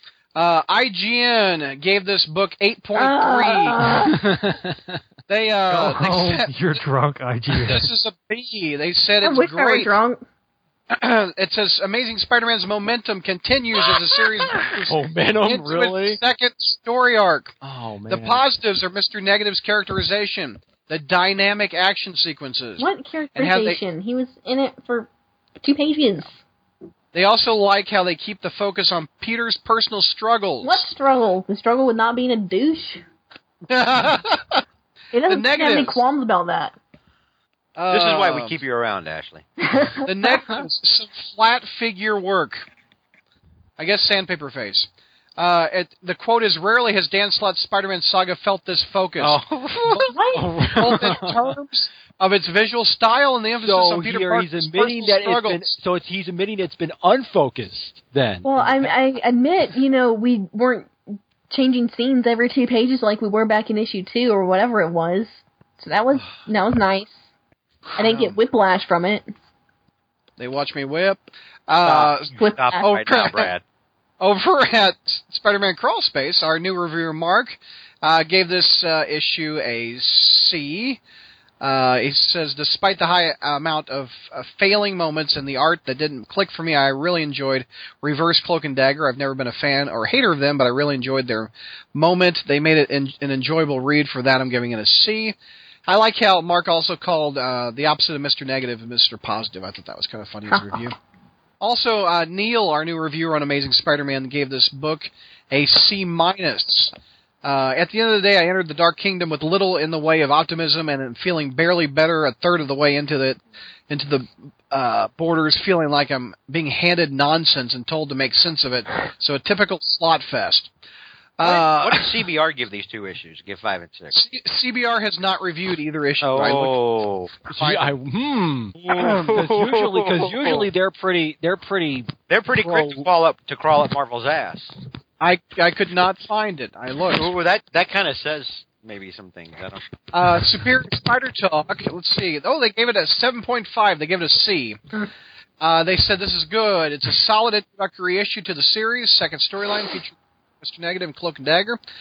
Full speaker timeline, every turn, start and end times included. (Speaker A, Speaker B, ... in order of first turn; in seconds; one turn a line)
Speaker A: 0.3-4.4
Speaker B: 2.9-4.2
Speaker C: 4.0-5.0
Speaker A: 5.3-6.5
Speaker D: 5.7-7.9
Speaker A: 7.6-9.9
Speaker B: 9.2-10.2
Speaker A: 10.9-17.6
Speaker C: 14.8-16.2
Speaker C: 17.6-18.4
Speaker A: 18.1-23.8
Speaker B: 22.8-25.1
Speaker B: 25.6-26.4
Speaker A: 27.1-30.8
Speaker B: 30.6-33.0
Speaker A: 33.7-34.6
Speaker B: 35.1-36.7
Speaker A: 35.3-36.0
Speaker A: 37.8-38.6
Speaker E: 37.9-39.4
Speaker B: 39.6-40.1
Speaker A: 40.0-42.6
Speaker A: 43.8-55.8
Speaker C: 49.2-51.4
Speaker B: 50.0-50.9
Speaker C: 53.6-58.9
Speaker B: 58.4-60.9
Speaker B: 61.5-67.2
Speaker B: 68.0-69.3
Speaker A: 68.0-68.3
Speaker A: 70.4-73.5
Speaker E: 71.8-73.6
Speaker B: 72.3-72.9
Speaker A: 74.2-81.0
Speaker A: 81.6-95.3
Speaker A: 95.8-101.0
Speaker A: 101.6-106.9
Speaker A: 107.4-113.4
Speaker A: 113.9-120.7
Speaker A: 121.4-122.2
Speaker E: 121.4-124.2
Speaker A: 124.1-126.8
Speaker E: 126.2-127.3
Speaker C: 127.5-133.1
Speaker A: 127.5-127.9
Speaker E: 128.8-130.7
Speaker E: 132.3-134.8
Speaker A: 135.2-137.3
Speaker E: 137.1-139.8
Speaker A: 140.1-144.8
Speaker A: 145.6-151.8